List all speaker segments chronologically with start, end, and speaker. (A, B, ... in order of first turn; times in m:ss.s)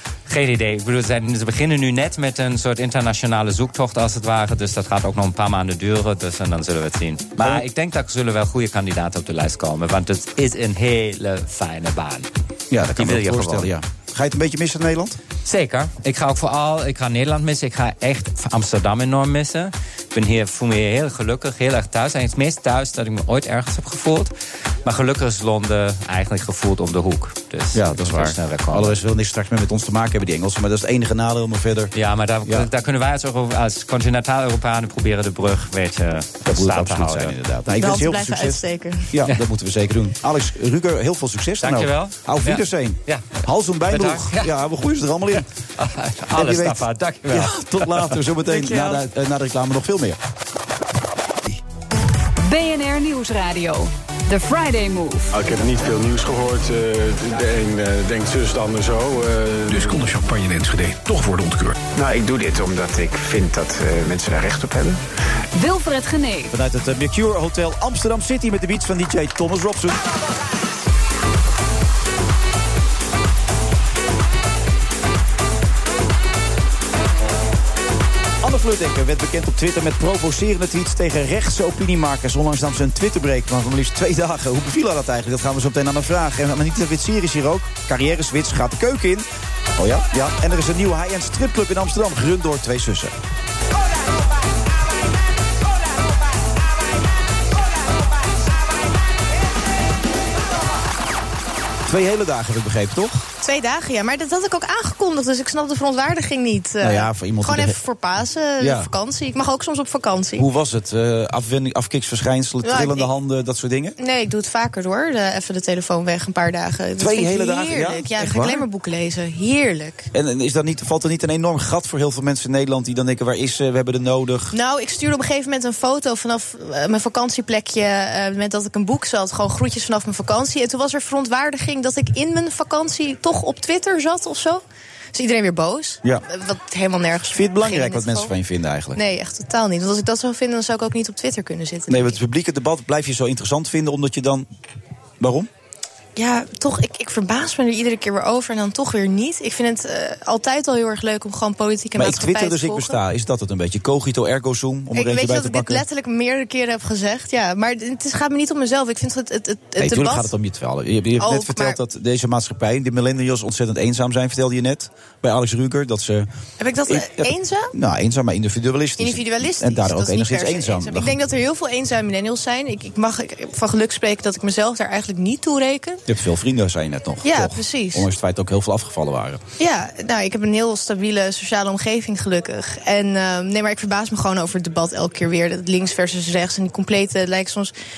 0:00.3-0:12.3 A
0:07.4-0:07.6 B
0:12.7-0:15.2 B
0:13.0-0:13.7 A
0:15.4-0:24.3 A
0:24.8-0:29.0 A
0:27.7-0:31.9 B
0:31.9-0:37.4 A
0:36.4-0:45.5 B
0:37.7-0:39.1 C
0:41.6-0:44.6 A
0:45.3-0:48.2 A
0:46.3-0:50.2 B
0:48.5-0:49.0 C
0:52.4-0:55.3 D
0:55.3-1:00.1 E
1:01.9-1:05.0 F
1:05.5-1:06.5 D
1:06.5-1:10.0 B
1:18.4-1:33.1 B
1:41.8-1:43.3 B
1:43.4-1:50.5 C
1:46.8-1:47.8 B
1:48.6-1:48.9 B
1:50.4-1:54.0 B
1:52.6-1:53.1 C
1:54.0-2:00.1 C
1:57.0-1:58.6 B
2:00.1-2:04.5 B
2:04.5-2:14.6 C
2:15.1-2:18.3 C
2:17.3-2:19.0 B
2:18.9-2:22.2 C
2:21.9-2:24.4 B
2:25.2-2:25.5 B
2:26.2-2:33.0 C
2:32.0-2:35.8 B
2:34.9-2:40.3 C
2:39.8-2:46.3 B
2:41.2-2:41.8 C
2:46.6-2:47.7 C
2:46.9-2:51.2 B
2:49.0-2:56.0 C
2:56.1-2:59.4 B
2:57.2-2:58.1 C
2:59.6-3:07.7 C